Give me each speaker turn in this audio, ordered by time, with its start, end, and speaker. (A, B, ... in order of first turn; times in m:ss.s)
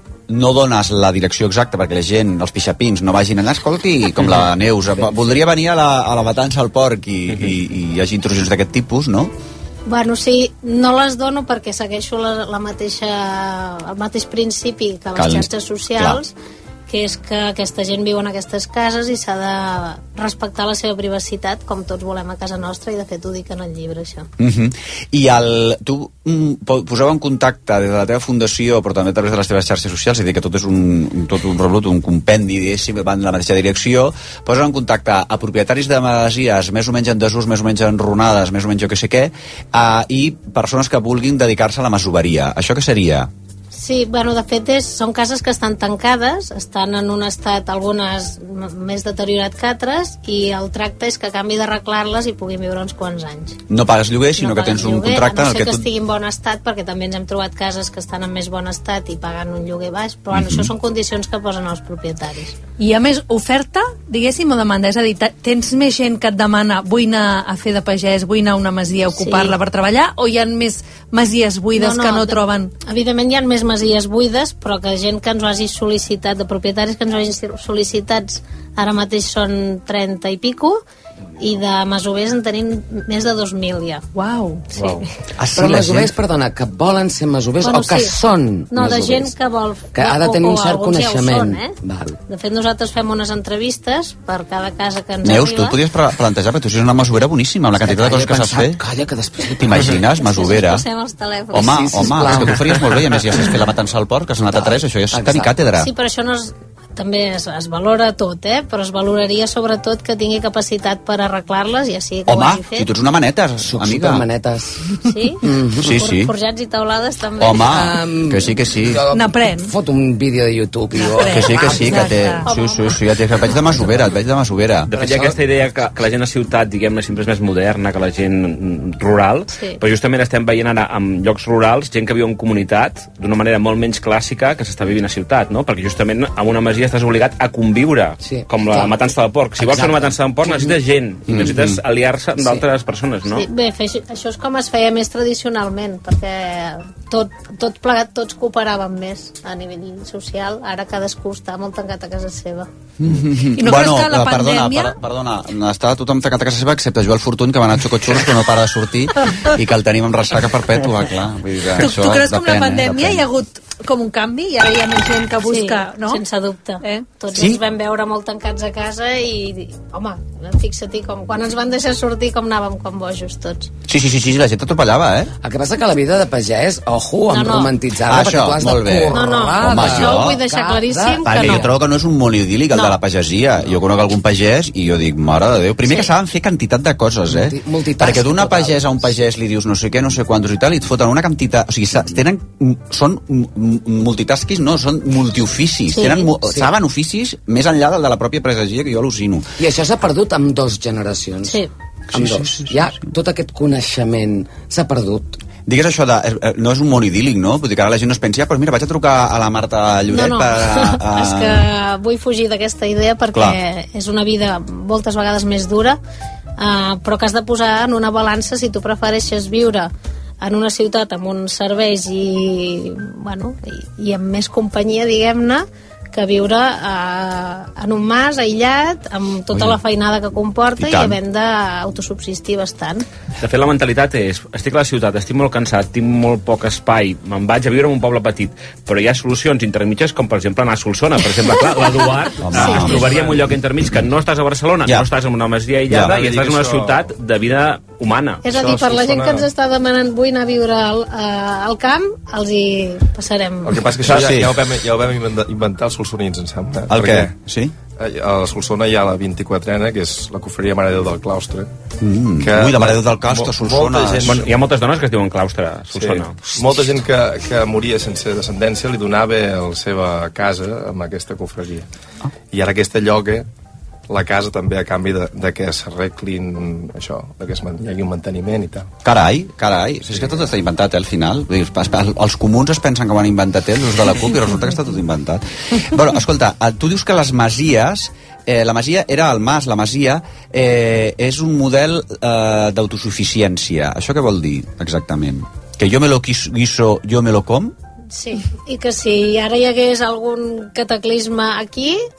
0:00.3-0:09.3 A
0:09.9-0:16.3 B
0:15.2-0:16.2 A
0:16.9-0:24.3 B
0:24.4-0:43.3 A
0:43.7-0:53.6 B
0:53.7-0:55.9 A
0:54.4-1:02.6 B
1:00.3-1:00.7 A
1:02.8-1:12.7 C
1:09.1-1:09.6 B
1:11.8-1:20.8 B
1:21.4-1:24.0 B
1:24.2-1:24.7 C
1:24.7-1:25.0 B
1:25.4-1:26.1 A
1:25.6-1:29.4 D
1:27.6-1:28.2 B
1:28.7-1:31.8 B
1:29.9-1:32.2 D
1:32.3-1:35.8 B
1:35.2-1:38.8 A
1:37.8-1:40.0 D
1:39.6-1:40.8 A
1:40.2-1:41.8 B
1:41.5-1:45.9 A
1:41.6-1:43.0 D
1:44.5-1:45.5 D
1:45.8-1:52.9 B
1:52.3-1:54.2 A
1:53.6-1:56.0 D
1:55.1-1:55.4 B
1:55.8-1:56.3 A
1:56.0-1:57.8 B
1:57.4-1:59.0 A
1:57.6-2:02.4 D
1:59.1-1:59.7 C
2:01.0-2:02.4 C
2:01.3-2:04.9 A
2:02.5-2:03.0 B
2:04.9-2:23.4 E
2:04.9-2:05.4 D
2:09.5-2:09.8 B
2:18.2-2:19.0 D
2:19.6-2:20.8 D
2:21.3-2:21.8 A
2:22.4-2:22.7 D
2:23.3-2:32.7 B
2:33.0-2:43.2 A
2:33.6-2:35.0 C
2:41.8-2:46.2 C
2:45.4-2:53.7 B
2:46.8-2:47.1 C
2:47.3-2:47.6 A
2:53.9-2:55.3 A
2:55.4-3:01.7 D
2:57.3-2:57.7 B
2:58.1-3:00.4 A
2:59.1-3:01.6 B
3:01.2-3:19.5 A
3:07.3-3:09.0 D
3:15.9-3:16.3 B
3:16.5-3:16.7 D
3:19.6-3:21.6 D
3:21.4-3:21.7 B
3:22.1-3:22.8 A
3:22.1-3:25.4 D
3:25.7-3:31.7 A
3:30.1-3:36.0 B
3:33.3-3:33.6 A
3:36.6-3:39.9 B
3:40.4-3:53.0 B
3:49.5-3:49.8 A
3:50.8-3:51.2 A
3:53.4-4:08.4 E
4:02.4-4:03.2 A
4:02.9-4:03.5 F
4:05.9-4:06.2 A
4:05.9-4:07.1 F
4:08.4-4:13.8 B
4:08.5-4:09.5 F
4:13.6-4:17.3 F
4:14.0-4:14.6 A
4:16.9-4:17.7 A
4:18.0-4:21.7 F
4:22.0-4:24.5 A
4:22.4-4:24.5 F
4:24.3-4:26.4 E
4:25.9-4:31.9 F
4:32.5-4:33.5 F
4:34.1-4:38.9 F
4:39.0-4:57.7 A
4:58.1-5:02.0 B